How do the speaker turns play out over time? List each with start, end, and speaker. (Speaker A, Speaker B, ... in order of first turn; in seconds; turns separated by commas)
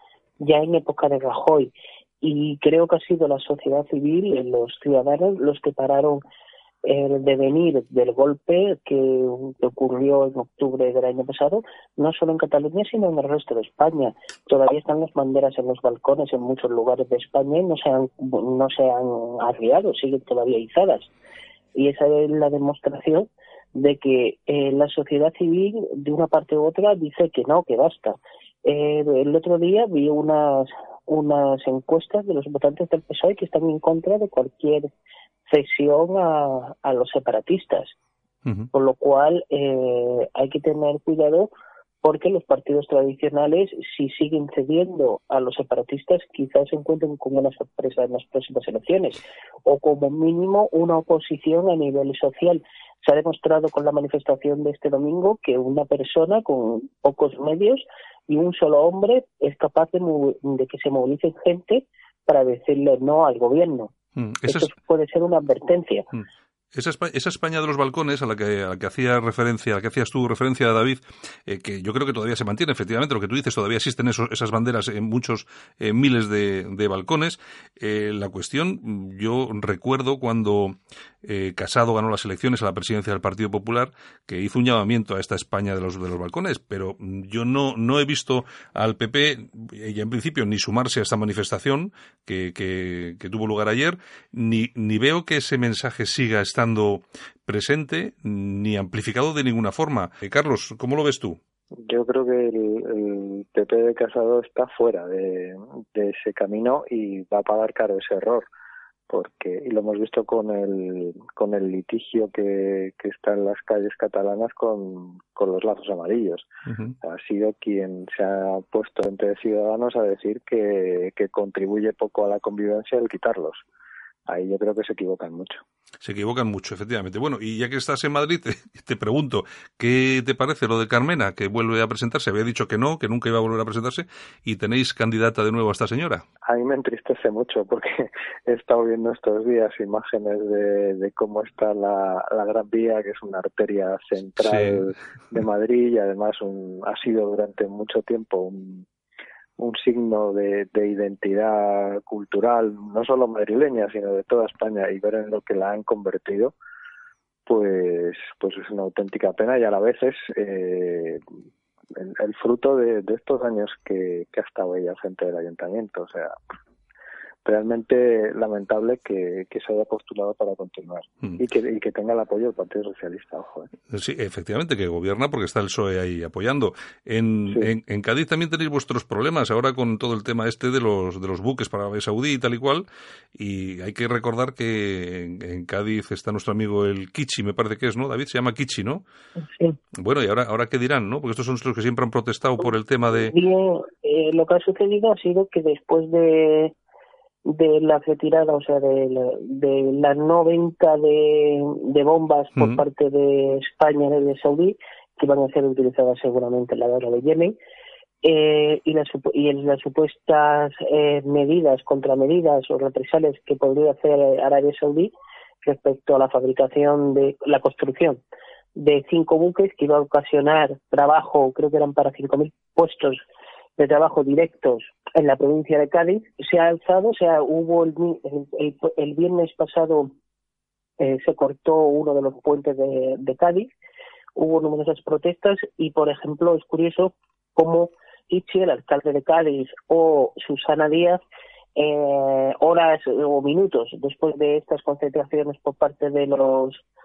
Speaker A: 0.4-6.2, Speaker A: 6.8-21.1, Speaker A: 21.8-34.9, Speaker A: 35.5-37.9, Speaker B: 38.5-38.7, Speaker A: 38.7-41.5, Speaker A: 42.0-63.9, Speaker B: 64.2-64.7, Speaker A: 64.5-66.1, Speaker B: 66.1-101.4, Speaker C: 101.8-108.5, Speaker C: 109.1-116.5, Speaker B: 116.7-116.9, Speaker C: 117.0-123.6, Speaker C: 124.3-125.6, Speaker B: 126.0-136.2, Speaker C: 136.4-148.9, Speaker B: 144.4-144.8, Speaker C: 149.6-156.5, Speaker C: 157.5-161.2, Speaker C: 161.9-166.4, Speaker C: 167.4-173.7, Speaker B: 173.9-189.0, Speaker A: 189.4-189.8, Speaker B: 190.0-193.3, Speaker A: 193.3-196.7, Speaker A: 197.5-207.6, Speaker B: 202.6-202.8, Speaker A: 208.2-215.1, Speaker A: 215.6-218.2, Speaker A: 218.8-223.2, Speaker A: 223.8-230.1, Speaker A: 231.0-233.7, Speaker A: 234.4-241.2, Speaker A: 241.8-246.8